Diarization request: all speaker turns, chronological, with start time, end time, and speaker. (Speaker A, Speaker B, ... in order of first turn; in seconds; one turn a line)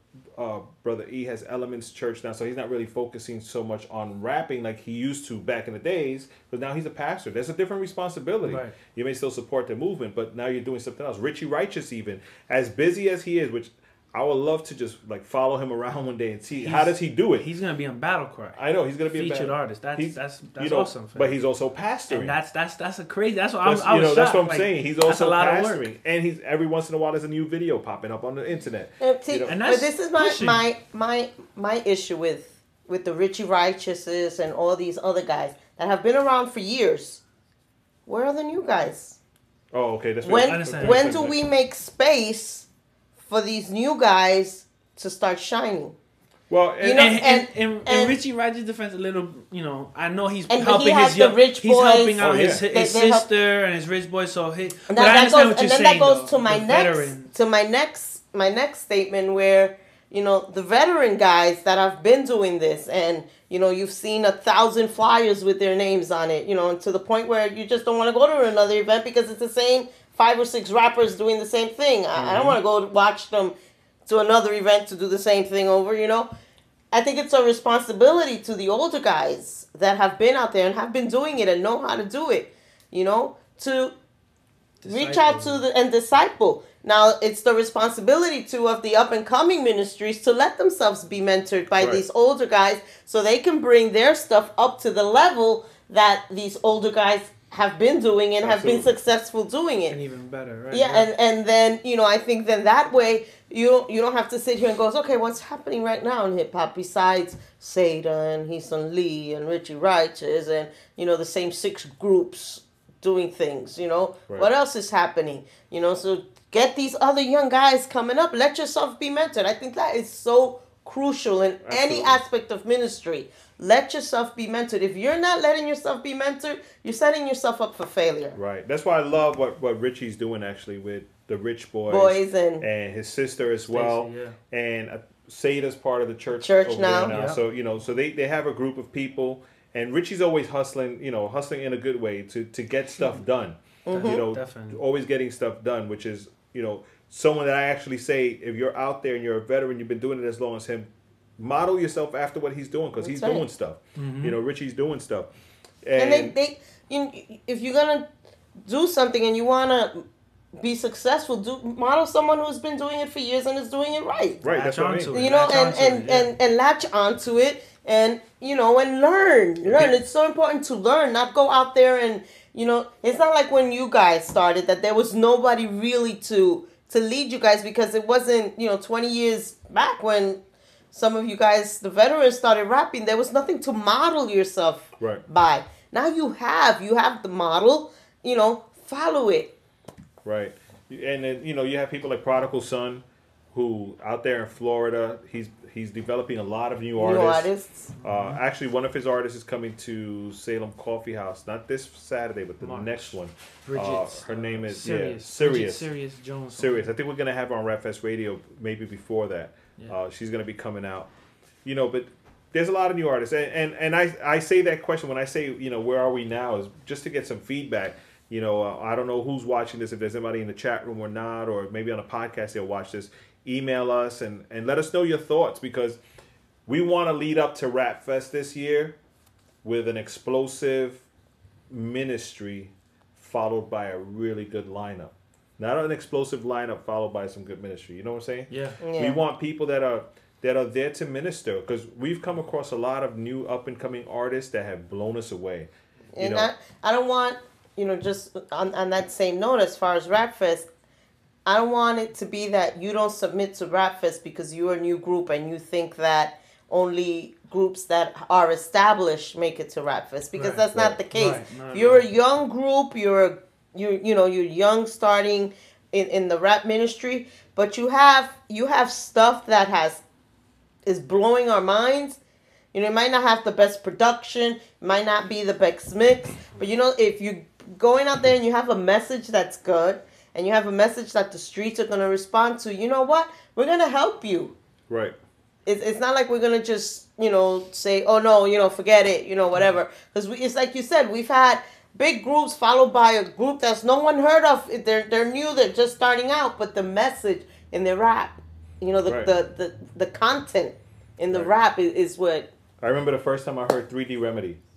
Speaker A: 0.3-17.5
Speaker B: 8.4-8.8
Speaker B: 16.6-21.4
Speaker A: 18.5-22.3
Speaker B: 22.1-25.9
Speaker A: 23.6-29.5
Speaker C: 29.0-37.2
Speaker B: 29.5-30.6
Speaker C: 38.1-39.2
Speaker A: 39.7-41.4
Speaker C: 40.2-42.7
Speaker B: 40.4-41.1
Speaker C: 43.3-46.0
Speaker A: 46.5-47.1
Speaker C: 46.8-48.2
Speaker B: 46.9-57.3
Speaker C: 50.5-53.3
Speaker A: 52.2-52.6
Speaker C: 54.9-73.5
Speaker B: 72.2-72.5
Speaker C: 74.1-76.3
Speaker C: 76.9-83.9
Speaker B: 84.8-85.6
Speaker C: 84.9-100.0
Speaker A: 98.4-98.9
Speaker B: 99.9-101.1
Speaker C: 100.7-128.3
Speaker A: 121.6-122.2
Speaker A: 128.3-155.3
Speaker C: 131.9-132.6
Speaker B: 133.7-134.4
Speaker C: 136.3-137.2
Speaker B: 137.1-137.4
Speaker C: 143.8-144.2
Speaker B: 143.9-144.8
Speaker C: 153.0-153.4
Speaker B: 153.9-154.4
Speaker A: 155.8-156.3
Speaker C: 156.0-158.1
Speaker C: 158.6-160.0
Speaker C: 160.6-164.4
Speaker A: 164.4-165.2
Speaker B: 164.4-166.3
Speaker C: 165.1-180.4
Speaker A: 169.6-169.9
Speaker C: 180.9-189.5
Speaker A: 190.2-197.5
Speaker C: 196.9-197.9
Speaker B: 198.0-198.4
Speaker A: 198.0-205.9
Speaker B: 202.6-206.9
Speaker A: 206.6-211.1
Speaker A: 211.6-226.0
Speaker A: 226.7-229.0
Speaker A: 229.6-231.0
Speaker A: 231.7-246.5
Speaker B: 238.5-238.8
Speaker C: 238.8-239.2
Speaker C: 246.1-250.7
Speaker C: 251.4-270.0
Speaker B: 260.3-262.0
Speaker C: 270.9-272.2
Speaker C: 272.7-284.5
Speaker A: 284.9-285.1
Speaker C: 285.6-302.5
Speaker A: 302.8-304.6